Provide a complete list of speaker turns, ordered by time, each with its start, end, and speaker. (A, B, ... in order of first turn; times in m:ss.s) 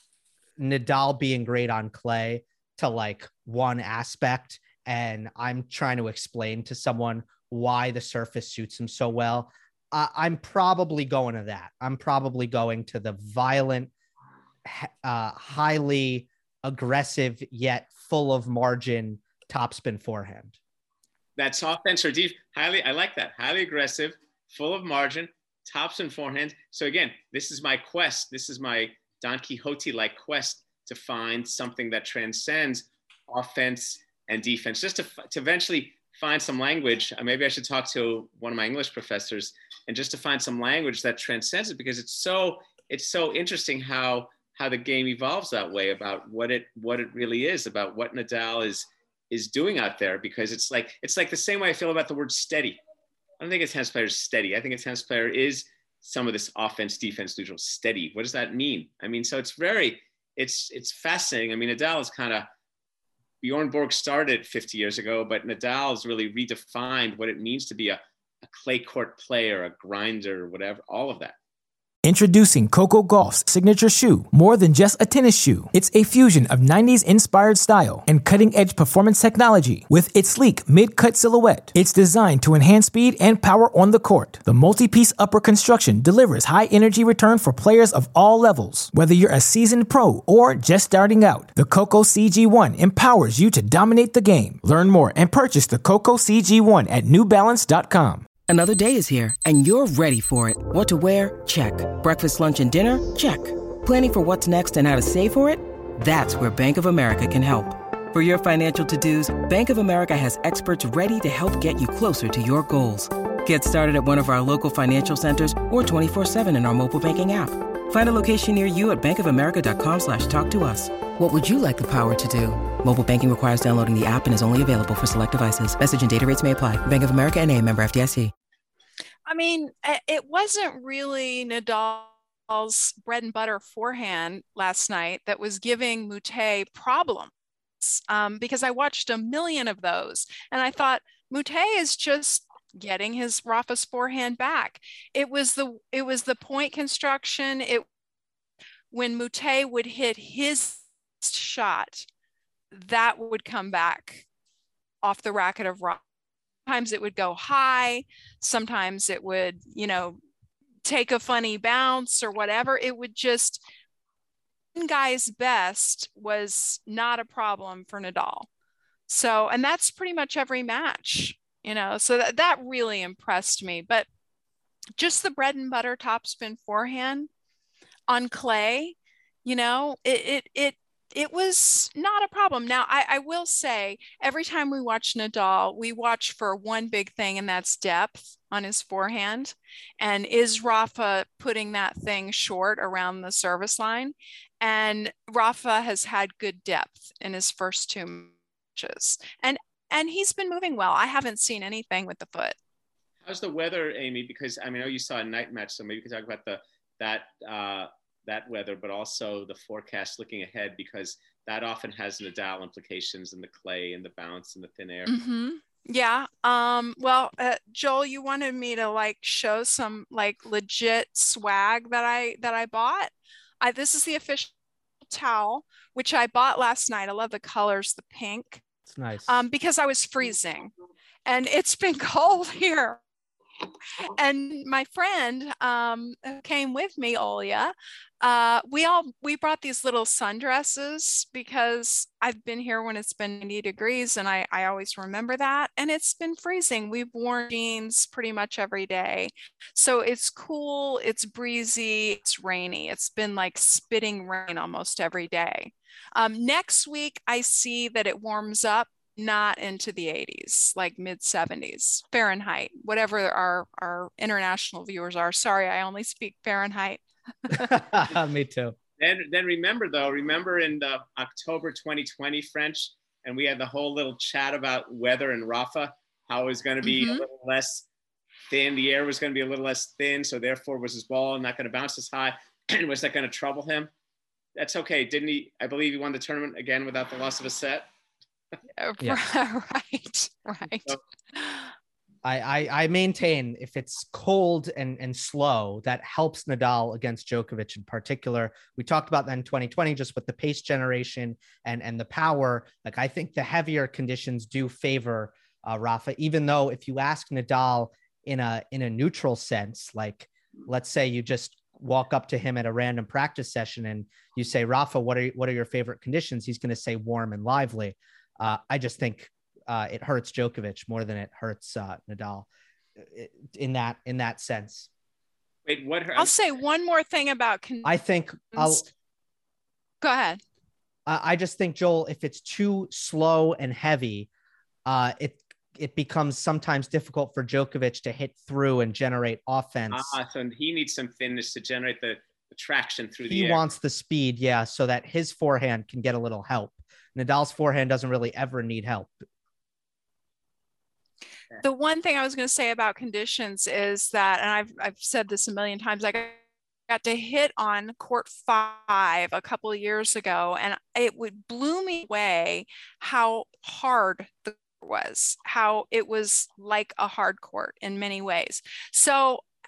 0:00.6-0:13.9 A
0:14.6-0:20.6 A
0:21.4-0:52.8 B
0:53.4-1:02.5 B
1:03.4-1:11.4 B
1:12.0-1:38.2 C
1:38.5-2:08.3 D
2:09.3-2:27.9 E
2:28.9-2:32.1 E
2:32.7-2:34.2 E
2:35.0-2:36.0 E
2:36.7-2:40.2 E
2:40.8-2:43.6 E
2:44.8-2:48.5 E
2:49.1-2:54.1 E
2:55.0-2:57.3 E
2:58.1-3:22.6 E
3:23.2-3:35.1 B
3:35.1-3:44.5 E
3:45.0-3:48.6 E
3:48.9-3:49.4 A
3:49.3-3:50.7 E
3:51.3-3:53.0 E
3:53.9-4:27.8 E
4:27.5-4:28.8 A
4:29.0-4:37.9 B
4:36.8-4:37.2 E
4:38.5-4:43.9 B
4:44.6-4:47.9 B
4:48.8-4:51.7 E
4:52.2-5:22.5 A
5:23.0-5:24.9 A
5:25.7-5:26.4 B
5:26.2-5:28.0 E
5:27.8-5:28.9 A
5:28.6-5:28.9 E
5:30.0-5:30.4 E
5:31.1-5:34.3 A
5:34.9-5:40.2 A
5:39.9-5:43.6 B
5:43.3-5:49.2 A
5:51.6-5:56.4 E
5:56.9-6:09.4 E